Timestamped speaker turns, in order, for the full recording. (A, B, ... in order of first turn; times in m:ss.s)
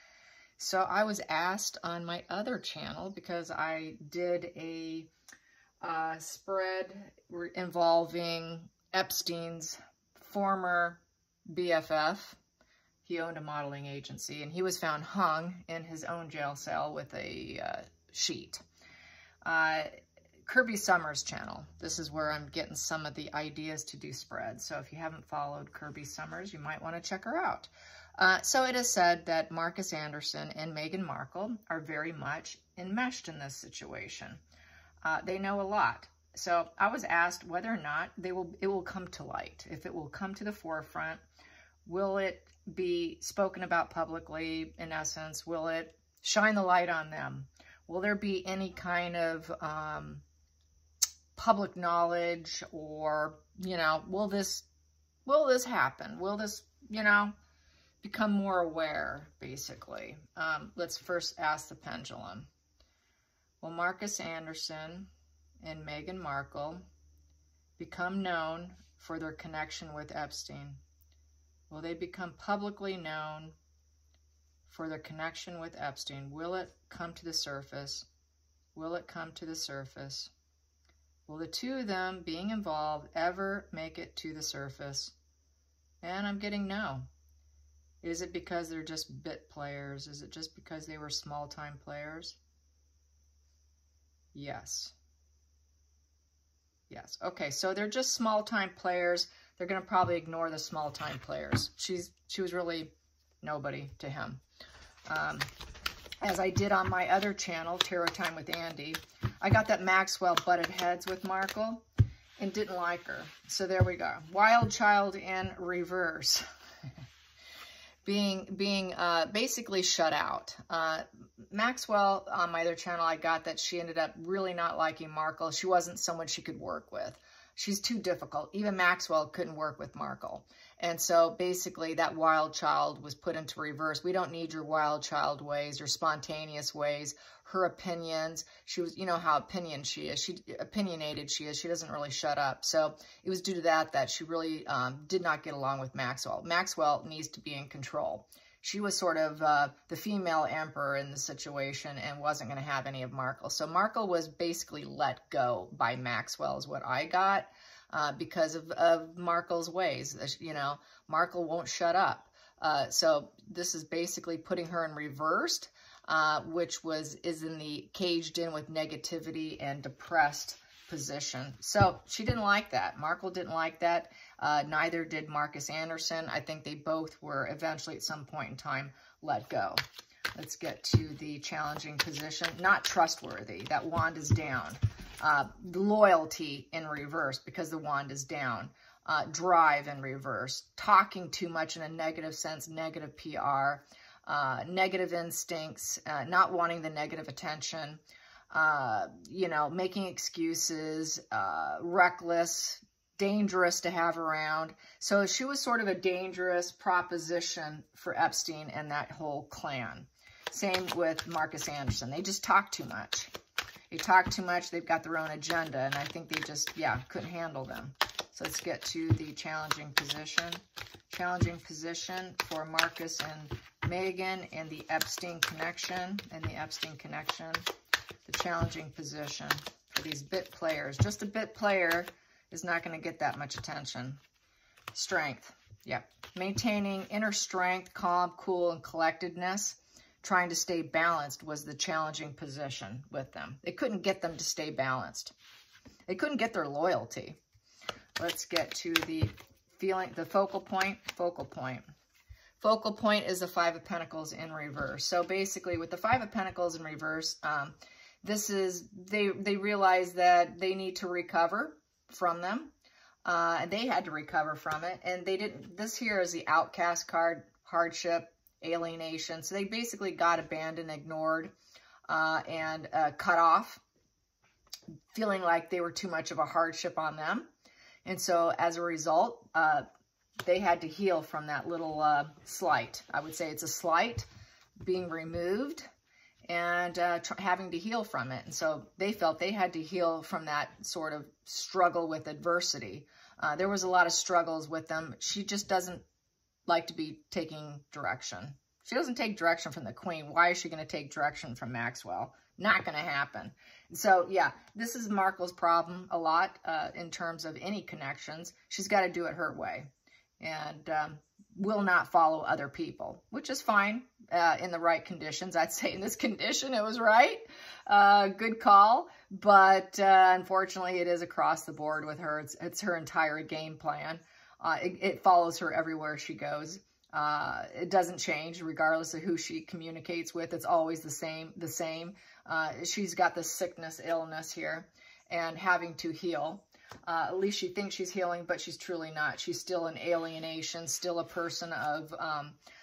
0:00.6-0:05.1 A
0:05.8-0:12.4 A
0:13.0-0:18.6 A
0:19.4-0:19.9 A
0:20.4-0:34.4 A
0:35.0-0:41.2 A
0:41.8-0:50.2 A
0:51.4-0:54.6 A
0:55.2-0:57.3 A
0:58.0-1:02.5 A
1:03.6-1:05.1 A
1:05.6-1:06.8 A
1:07.8-1:10.8 A
1:11.7-1:13.6 A
1:14.6-1:18.1 A
1:18.7-1:20.3 A
1:21.3-1:25.1 A
1:26.0-1:27.1 A
1:28.0-1:32.4 A
1:34.3-1:34.9 A
1:36.9-1:44.4 A
1:45.1-1:45.5 A
1:46.2-1:51.8 A
1:52.4-1:56.4 A
1:58.0-2:59.8 A
3:00.3-3:33.3 A
3:33.9-3:47.7 A
3:48.2-3:54.2 A
3:54.9-4:05.3 A
4:06.1-4:07.4 A
4:08.2-4:11.9 A
4:12.6-4:22.7 A
4:23.2-4:31.5 A
4:32.1-4:33.8 A
4:35.1-4:37.5 A
4:38.0-4:39.8 A
4:40.4-4:44.3 A
4:44.8-4:45.8 A
4:46.4-4:56.0 A
4:56.7-5:42.6 A